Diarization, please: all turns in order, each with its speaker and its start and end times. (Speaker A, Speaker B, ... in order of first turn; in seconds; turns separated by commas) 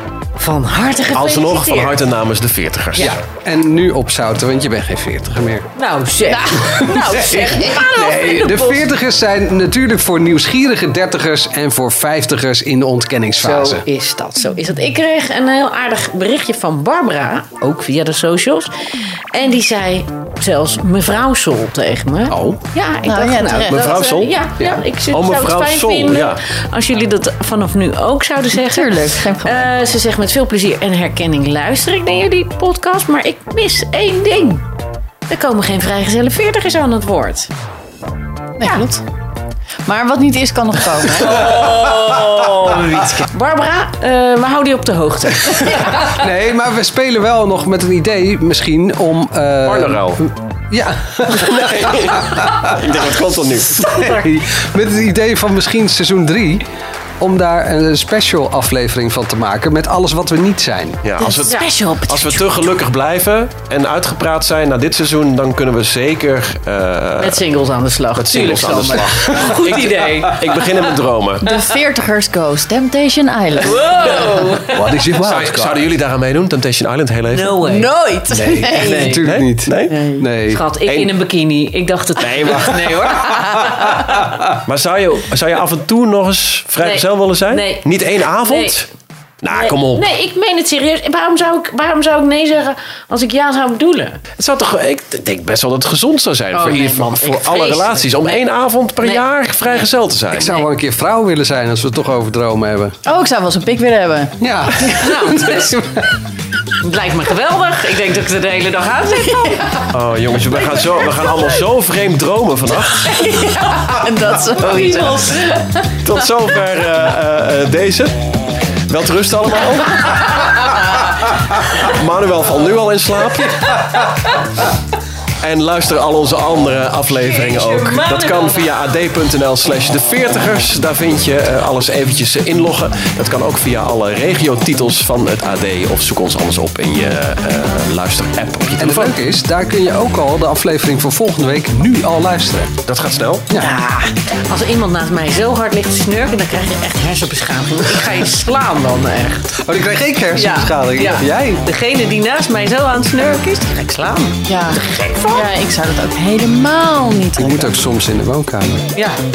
Speaker A: 0.4-2.0, Speaker B: 1.1-3.2, Speaker C: 3.0-5.7, Speaker A: 5.8-8.9, Speaker D: 6.3-7.8, Speaker C: 6.8-13.9, Speaker A: 13.4-18.7, Speaker A: 19.3-34.7, Speaker C: 22.3-22.6, Speaker D: 23.1-23.8, Speaker B: 23.7-24.4, Speaker B: 25.1-26.4, Speaker D: 28.5-29.7, Speaker A: 35.3-37.5, Speaker D: 38.6-39.0, Speaker D: 39.9-41.4, Speaker A: 41.1-46.1, Speaker C: 46.0-52.7, Speaker B: 49.6-50.2, Speaker B: 51.4-53.9, Speaker A: 53.8-54.3, Speaker C: 54.0-56.7, Speaker C: 57.2-61.0, Speaker B: 61.0-67.4, Speaker D: 61.2-61.5, Speaker A: 61.5-62.4, Speaker A: 67.2-70.9, Speaker B: 68.2-71.5, Speaker D: 71.4-74.3, Speaker A: 73.6-74.8, Speaker C: 74.7-75.8, Speaker B: 75.2-77.6, Speaker A: 77.3-77.9, Speaker D: 77.7-79.2, Speaker C: 78.3-80.6, Speaker A: 78.7-79.3, Speaker B: 79.2-80.0, Speaker D: 79.9-80.2, Speaker A: 80.5-84.2, Speaker B: 80.8-81.1, Speaker B: 82.2-83.2, Speaker B: 84.6-88.9, Speaker A: 86.8-88.8, Speaker B: 89.4-90.1, Speaker A: 89.5-94.2, Speaker B: 94.4-100.6, Speaker A: 96.5-98.4, Speaker A: 99.0-99.9, Speaker C: 100.3-103.0, Speaker D: 103.1-105.2, Speaker C: 104.4-104.8, Speaker A: 105.0-106.1, Speaker A: 106.8-109.8, Speaker B: 109.9-113.2, Speaker A: 110.7-111.4, Speaker A: 113.2-113.9, Speaker D: 113.5-115.8, Speaker A: 114.6-115.4, Speaker B: 114.6-115.2, Speaker B: 116.0-118.3, Speaker B: 118.9-123.8, Speaker A: 123.7-124.3, Speaker B: 125.4-139.2, Speaker A: 127.1-128.8, Speaker C: 138.8-142.8, Speaker B: 142.9-143.5, Speaker A: 143.6-149.5, Speaker C: 149.6-151.6, Speaker A: 150.3-155.5, Speaker D: 154.5-157.7, Speaker C: 157.4-158.9, Speaker A: 158.9-159.2